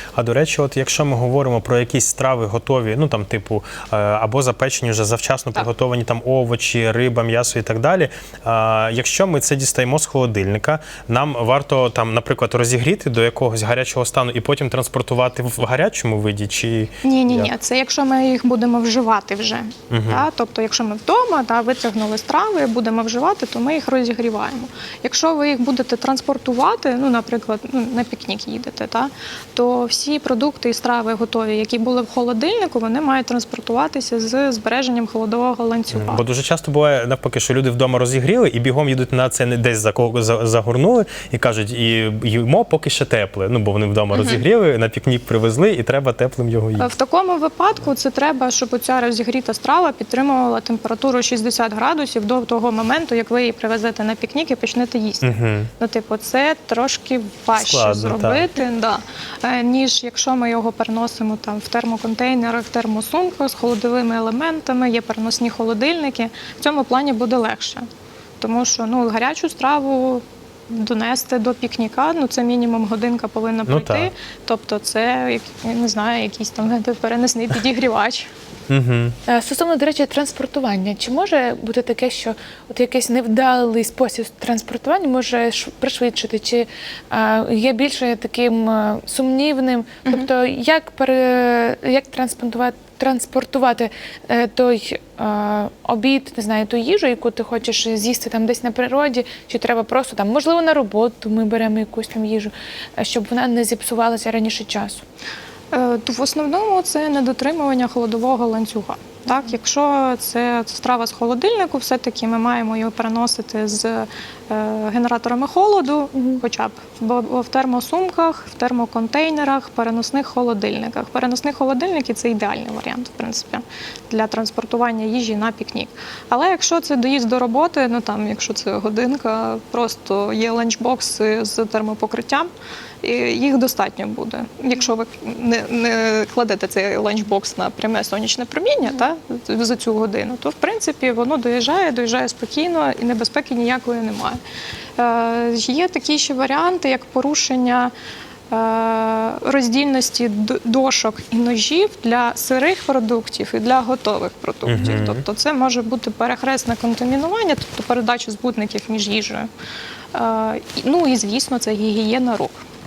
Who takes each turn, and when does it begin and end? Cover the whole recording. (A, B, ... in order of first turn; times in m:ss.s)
0:00.2-0:17.5 A
0:17.0-0:36.2 B
0:19.9-0:20.3 A
0:35.9-0:46.9 A
0:44.1-0:44.4 B
0:46.8-1:07.9 B
0:55.2-0:55.7 A
0:57.6-0:58.5 A
1:08.4-1:18.3 B
1:13.7-1:14.1 A
1:18.7-1:19.2 A
1:19.3-1:45.0 C
1:45.7-2:12.5 B
2:13.0-2:24.4 B
2:25.0-2:27.9 B
2:28.5-2:39.5 B
2:34.7-2:35.2 A
2:40.1-2:42.6 B